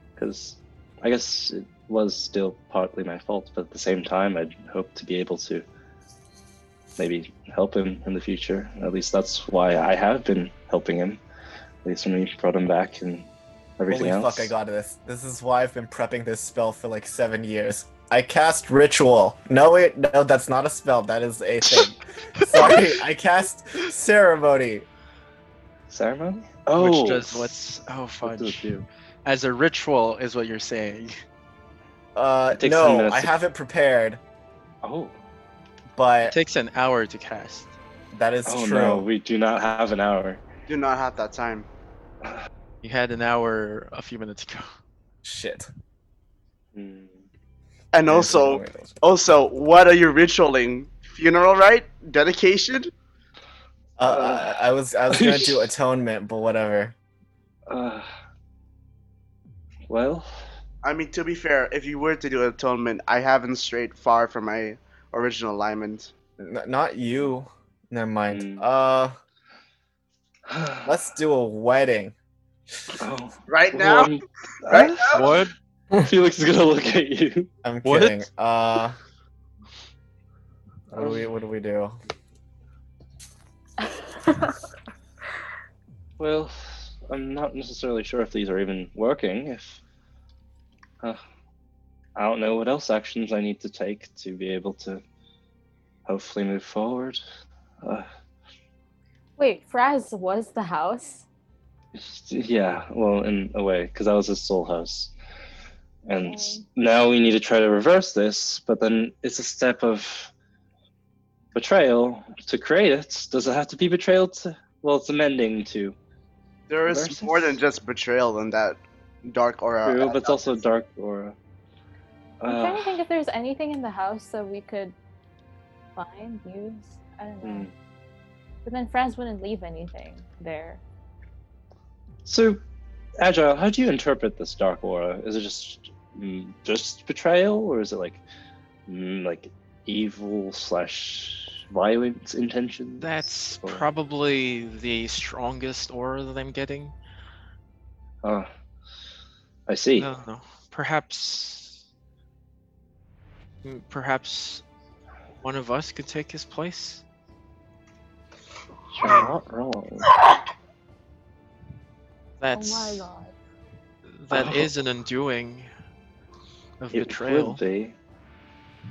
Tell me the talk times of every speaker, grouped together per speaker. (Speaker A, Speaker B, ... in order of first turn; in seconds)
Speaker A: 0.2-5.7, 7.0-11.2, 11.8-13.3, 13.8-14.5, 25.9-27.5, 28.2-28.9, 32.5-33.4, 34.8-35.1, 38.5-40.4, 46.8-47.2, 54.0-54.6, 55.1-55.7, 57.7-58.1, 59.9-60.3, 68.3-68.6, 70.5-70.9, 73.0-75.4, 75.9-77.5, 86.2-89.8, 92.2-95.0, 96.1-97.2, 102.0-105.1, 106.1-110.3, 111.5-116.0, 116.9-117.6, 119.8-121.4, 122.4-123.0, 127.4-127.7, 132.2-132.6, 133.2-138.2, 138.9-143.8, 149.7-150.1, 158.9-160.2, 164.3-164.7, 166.9-167.9
Speaker B: 13.9-24.9, 32.1-34.2, 36.0-36.4, 38.1-39.1, 45.2-45.7, 48.0-49.0, 54.0-57.0, 66.4-69.2, 70.8-72.2, 77.6-79.0, 80.9-82.0
Speaker C: 26.8-28.7, 29.2-31.1, 36.2-37.7, 42.8-44.7, 75.1-75.5, 77.8-78.3, 143.0-146.9, 150.0-151.8, 153.6-154.6, 155.4-157.0, 159.1-159.3, 162.4-163.0, 164.1-165.7, 166.8-167.6
Speaker D: 40.7-41.7, 47.9-52.9, 60.8-66.1, 73.5-75.3, 116.7-120.5
Speaker E: 99.4-101.2, 106.2-106.7, 122.5-125.0, 126.0-127.7, 128.6-130.8, 162.5-163.3